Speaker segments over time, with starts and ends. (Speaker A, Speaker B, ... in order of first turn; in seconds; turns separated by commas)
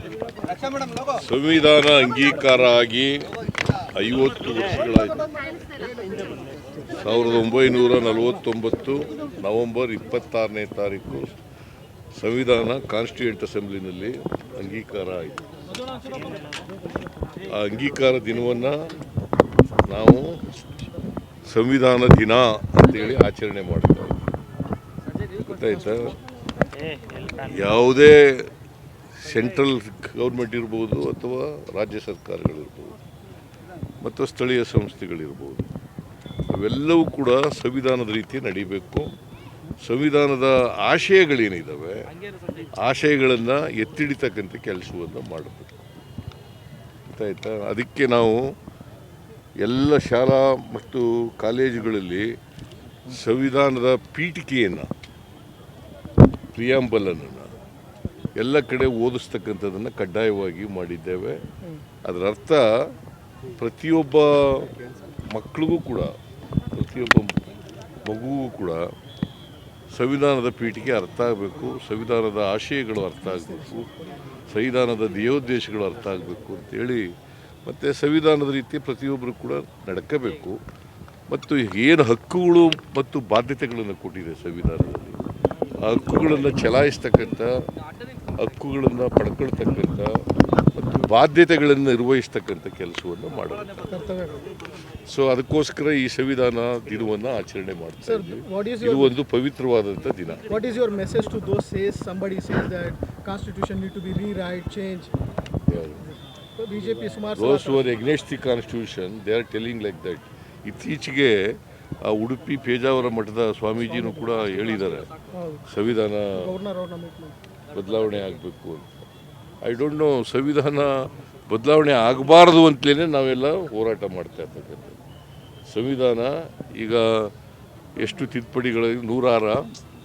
Speaker A: 1.1-5.3, Speaker A: 6.9-11.4, Speaker A: 12.2-15.5, Speaker A: 17.5-18.7, Speaker A: 19.9-20.4, Speaker A: 21.5-24.2, Speaker A: 25.4-26.2, Speaker A: 27.4-28.5, Speaker A: 29.2-33.0, Speaker A: 34.0-35.7, Speaker A: 36.5-39.1, Speaker A: 39.8-42.1, Speaker A: 42.8-45.8, Speaker A: 47.1-48.5, Speaker A: 49.6-52.3, Speaker A: 53.1-54.9, Speaker A: 56.5-57.5, Speaker A: 58.4-61.4, Speaker A: 62.0-62.6, Speaker A: 63.6-64.7, Speaker A: 65.3-66.1, Speaker A: 66.7-67.3, Speaker A: 68.0-68.8, Speaker A: 69.9-73.9, Speaker B: 73.3-74.2, Speaker A: 74.5-77.0, Speaker A: 77.7-80.6, Speaker A: 81.3-85.2, Speaker A: 85.8-87.5, Speaker A: 88.3-93.9, Speaker B: 93.9-94.5, Speaker A: 94.9-100.5, Speaker B: 98.0-99.2, Speaker B: 100.5-105.1, Speaker A: 105.7-106.0, Speaker B: 106.1-108.0, Speaker A: 107.4-115.1, Speaker B: 113.9-114.5, Speaker B: 115.3-115.7, Speaker A: 115.7-116.5, Speaker B: 116.3-117.4, Speaker A: 117.7-118.9, Speaker A: 119.6-120.9, Speaker A: 121.5-125.0, Speaker A: 125.7-127.3, Speaker A: 128.0-129.6